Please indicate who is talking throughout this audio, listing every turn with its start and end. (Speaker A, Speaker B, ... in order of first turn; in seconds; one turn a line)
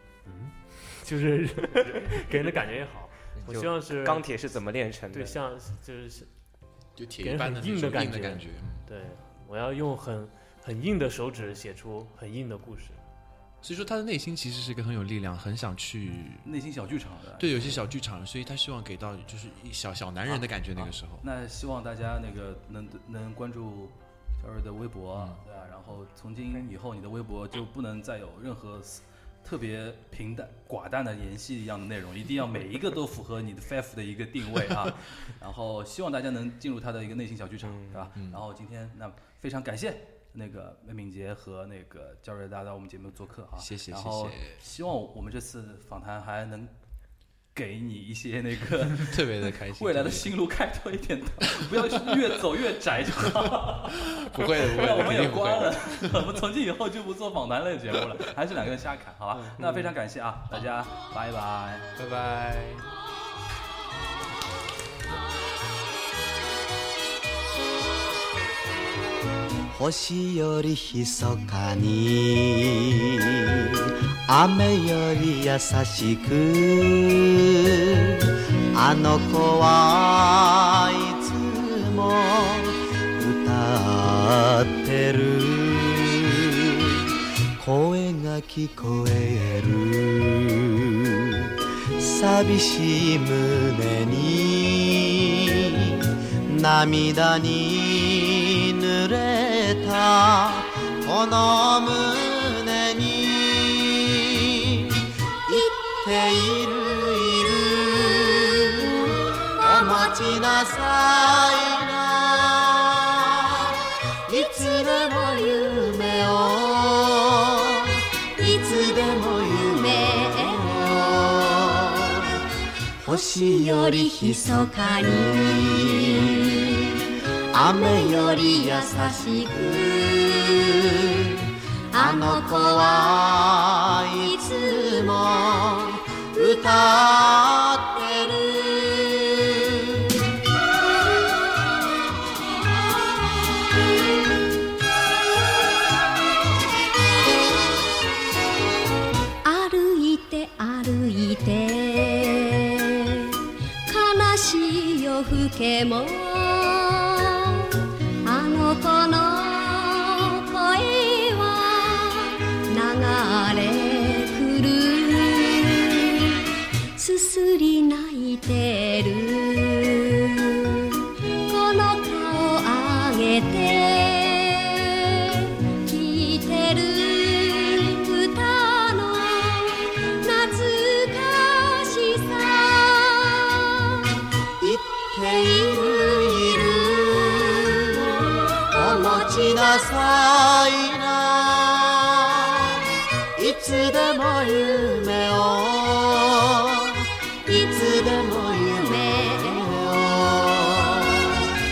Speaker A: 0.2-4.3
Speaker B: 1.9-2.4
Speaker B: 3.4-5.4
Speaker A: 5.1-6.3
Speaker C: 7.0-8.8
Speaker A: 7.2-13.0
Speaker C: 13.6-16.5
Speaker D: 16.4-17.8
Speaker C: 17.4-21.3
Speaker D: 20.2-46.7
Speaker C: 25.2-25.4
Speaker B: 37.6-38.1
Speaker C: 38.1-38.4
Speaker C: 43.5-44.6
Speaker D: 47.5-61.9
Speaker C: 48.9-50.3
Speaker C: 51.5-52.4
Speaker C: 53.5-56.4
Speaker C: 59.3-59.8
Speaker C: 62.0-62.9
Speaker E: 69.7-122.4
Speaker F: 105.5-106.0
Speaker F: 109.6-110.3
Speaker F: 114.3-115.7
Speaker F: 118.4-118.8
Speaker F: 119.6-120.7
Speaker E: 123.0-127.0
Speaker F: 123.0-126.7
Speaker F: 127.5-130.6
Speaker E: 127.5-140.1
Speaker F: 131.9-133.3
Speaker F: 134.2-135.3
Speaker F: 149.4-157.6
Speaker F: 158.2-166.4
Speaker F: 167.0-170.9
Speaker F: 171.5-183.3
Speaker E: 184.6-192.8
Speaker F: 188.6-189.9
Speaker E: 193.3-201.5
Speaker F: 197.5-197.8
Speaker F: 198.7-199.7